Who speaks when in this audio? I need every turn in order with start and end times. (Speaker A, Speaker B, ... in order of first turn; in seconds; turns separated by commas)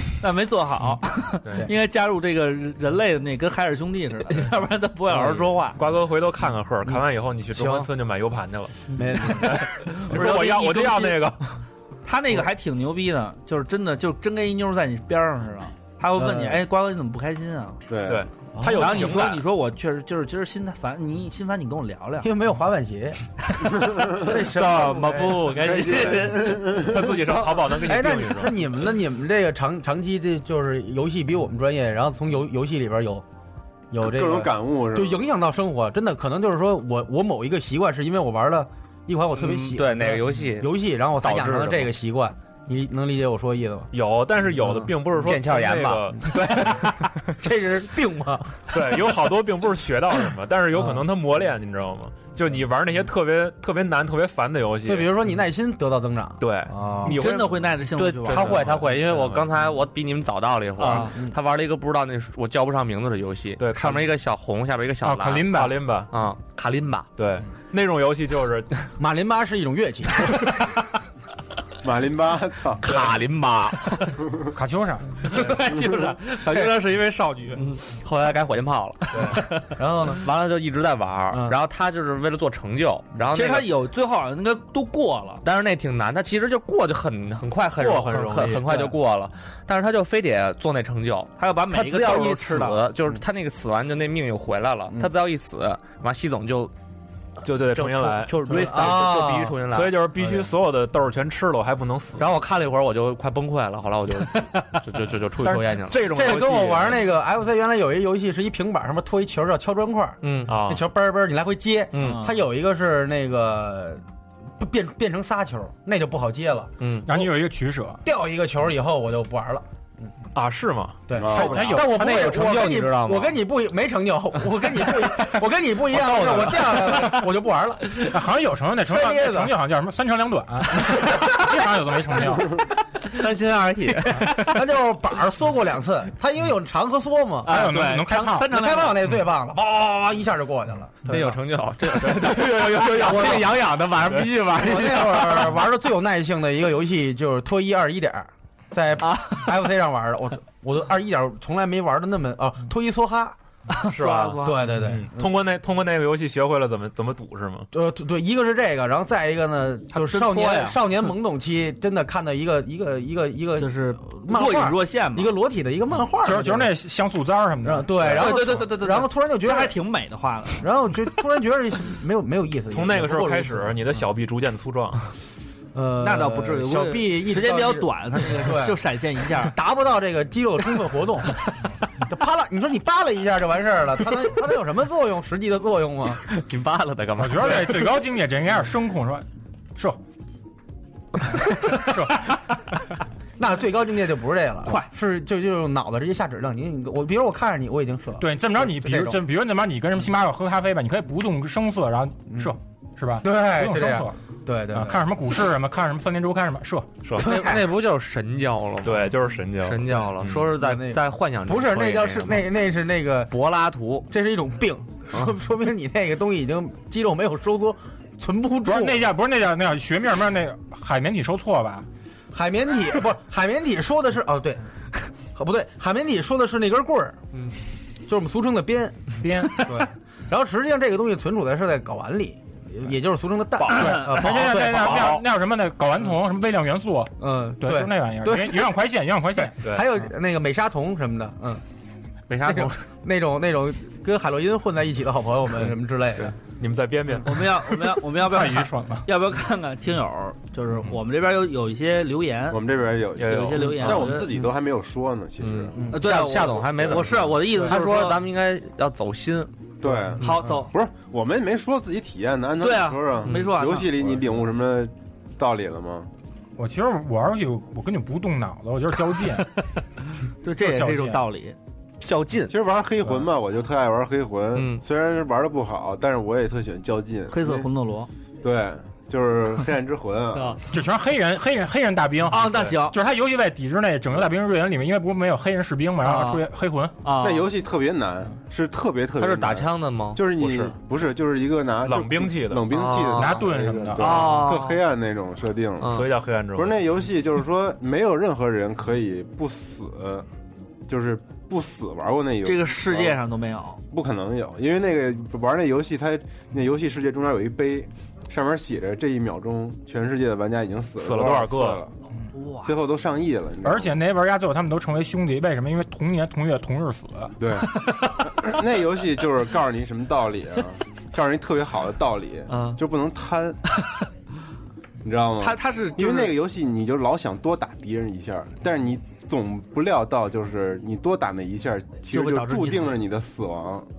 Speaker A: 0.2-5.8, Speaker B: 5.1-5.5, Speaker C: 5.8-11.5, Speaker B: 7.5-7.9, Speaker B: 8.9-9.6, Speaker A: 9.9-11.3, Speaker A: 12.1-17.8, Speaker B: 16.2-16.6, Speaker D: 17.9-18.2, Speaker C: 18.1-19.4, Speaker B: 18.6-19.2, Speaker A: 18.8-22.3, Speaker B: 22.2-23.2, Speaker D: 24.0-24.3, Speaker B: 24.0-25.5, Speaker E: 24.4-26.2, Speaker A: 25.3-26.7, Speaker D: 25.6-27.6, Speaker C: 26.6-28.7, Speaker B: 27.8-33.2, Speaker B: 33.9-43.9, Speaker D: 34.0-35.2, Speaker E: 39.4-41.9, Speaker C: 43.9-46.9, Speaker E: 45.1-47.0, Speaker B: 46.3-46.9, Speaker B: 47.4-48.6, Speaker C: 48.7-55.2, Speaker B: 54.9-57.2, Speaker C: 56.4-59.5, Speaker A: 57.1-58.6, Speaker E: 58.0-65.5, Speaker C: 60.8-61.1, Speaker B: 61.0-61.4, Speaker C: 63.6-64.1, Speaker F: 65.0-65.9, Speaker C: 65.5-66.1, Speaker E: 66.1-67.1, Speaker C: 67.2-68.9, Speaker B: 69.0-70.5, Speaker D: 71.8-73.0, Speaker E: 72.8-74.2, Speaker F: 74.5-75.2, Speaker A: 75.2-77.6, Speaker E: 77.6-79.4, Speaker B: 79.8-80.2, Speaker E: 80.1-83.7, Speaker B: 81.3-81.6, Speaker A: 83.3-85.4, Speaker E: 85.4-96.7, Speaker C: 87.8-88.9, Speaker A: 91.4-92.8, Speaker C: 97.4-99.1, Speaker E: 97.7-100.0, Speaker B: 98.5-99.6, Speaker C: 99.7-102.3, Speaker E: 102.2-106.1, Speaker C: 105.4-107.0, Speaker B: 106.0-114.0, Speaker E: 110.2-110.6, Speaker C: 110.5-110.8, Speaker E: 111.9-112.3, Speaker A: 112.0-112.3, Speaker B: 114.6-116.7, Speaker E: 116.8-117.1, Speaker F: 117.1-118.0, Speaker B: 118.0-120.1, Speaker C: 120.3-121.7, Speaker B: 121.1-128.2, Speaker D: 121.2-121.6, Speaker F: 121.3-122.8, Speaker E: 121.7-123.3, Speaker E: 126.0-127.2, Speaker F: 128.0-132.6, Speaker B: 128.9-129.6, Speaker E: 130.9-131.4, Speaker E: 133.0-134.6, Speaker B: 134.1-137.6, Speaker A: 137.4-139.0, Speaker F: 137.5-138.5, Speaker B: 138.5-141.4, Speaker E: 141.1-145.6, Speaker C: 141.9-144.4, Speaker B: 143.0-143.4, Speaker B: 144.5-153.4, Speaker A: 149.0-149.5, Speaker A: 153.7-154.7, Speaker C: 153.9-157.7, Speaker B: 154.4-155.3, Speaker B: 157.7-166.7, Speaker A: 159.9-160.8, Speaker A: 163.6-165.4, Speaker F: 166.2-168.0, Speaker B: 167.6-169.8, Speaker A: 168.0-170.7, Speaker B: 170.6-173.8, Speaker C: 172.7-175.1, Speaker B: 175.7-178.8, Speaker A: 176.0-179.5, Speaker B: 179.3-181.4, Speaker B: 182.0-186.2, Speaker E: 186.3-187.8, Speaker F: 187.2-190.0, Speaker F: 191.5-192.3, Speaker B: 193.4-199.2, Speaker F: 198.2-204.2, Speaker B: 203.2-205.0, Speaker F: 204.7-207.0, Speaker C: 207.1-207.4, Speaker E: 207.2-212.5, Speaker B: 207.2-207.7, Speaker C: 208.8-210.5, Speaker B: 210.6-213.3, Speaker E: 213.3-214.1, Speaker B: 214.1-219.1, Speaker F: 218.6-221.9, Speaker B: 222.3-224.6, Speaker B: 225.2-227.2, Speaker B: 228.1-235.2, Speaker F: 229.2-229.7, Speaker F: 233.7-239.6, Speaker B: 237.2-238.8, Speaker B: 239.3-241.6, Speaker C: 239.6-239.9, Speaker E: 242.3-242.8, Speaker B: 242.4-246.4, Speaker C: 246.6-247.5, Speaker A: 247.2-252.6, Speaker F: 248.1-249.1, Speaker D: 252.5-255.8, Speaker C: 253.2-254.1, Speaker A: 253.2-254.3, Speaker E: 255.4-259.5, Speaker B: 255.7-256.2, Speaker A: 255.9-258.2, Speaker D: 256.8-257.1, Speaker D: 259.8-266.1, Speaker A: 260.2-260.7, Speaker A: 262.6-263.9, Speaker F: 266.6-269.5, Speaker A: 270.4-271.6, Speaker F: 270.6-271.2, Speaker E: 272.0-272.5, Speaker D: 272.5-277.7, Speaker E: 274.6-274.8, Speaker A: 277.3-278.1, Speaker D: 278.4-280.6, Speaker F: 280.7-287.0, Speaker A: 282.3-283.0, Speaker C: 282.4-282.7, Speaker A: 286.0-286.4, Speaker A: 287.0-287.5, Speaker D: 287.2-300.3, Speaker E: 289.2-290.3, Speaker C: 290.4-290.7, Speaker C: 291.9-292.7, Speaker E: 292.7-293.4, Speaker F: 293.1-294.3, Speaker A: 294.0-294.8, Speaker E: 295.8-296.1, Speaker C: 295.8-296.8, Speaker D: 300.9-303.2, Speaker A: 302.4-303.8, Speaker D: 303.9-311.9, Speaker C: 311.0-311.8, Speaker A: 312.3-312.7, Speaker D: 312.6-314.0, Speaker F: 313.6-317.3, Speaker D: 317.4-323.6, Speaker A: 322.5-322.8, Speaker D: 325.0-333.9, Speaker A: 325.4-326.4, Speaker A: 332.1-333.0